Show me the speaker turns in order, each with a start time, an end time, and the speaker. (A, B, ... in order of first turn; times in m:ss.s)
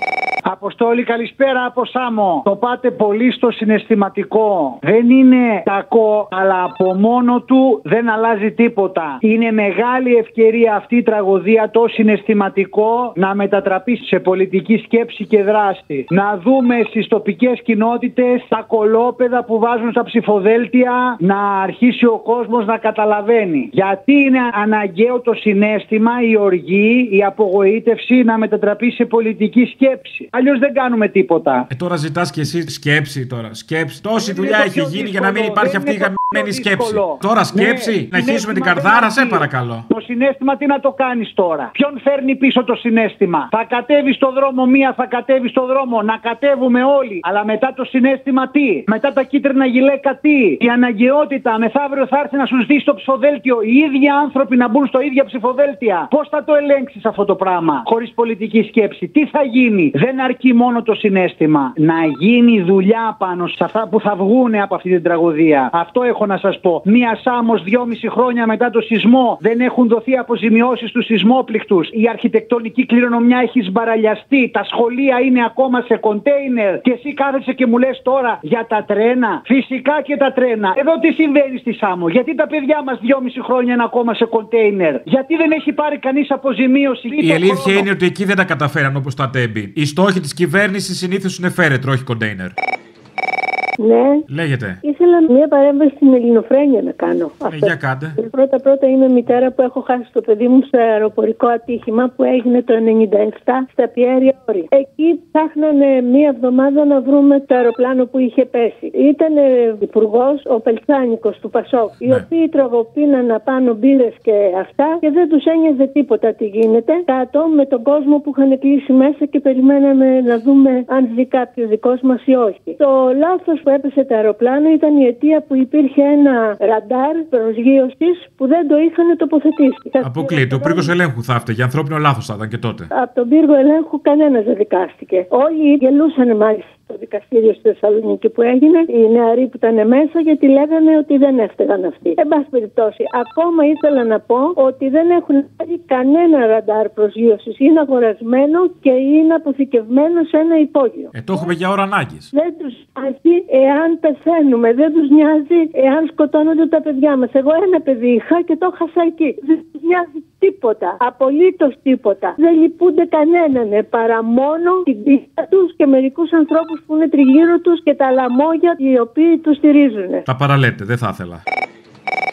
0:00.5-0:31.7 A
0:31.7-0:39.9 B
0:34.2-1:27.9 A
1:27.2-1:32.5 B
1:33.8-1:34.2 C
1:34.3-1:34.8 B
1:34.8-2:10.9 C
1:37.5-1:38.2 B
2:10.0-2:12.9 B
2:12.9-2:31.1 C
2:31.1-2:32.3 B
2:32.3-2:50.2 C
2:50.3-2:51.4 B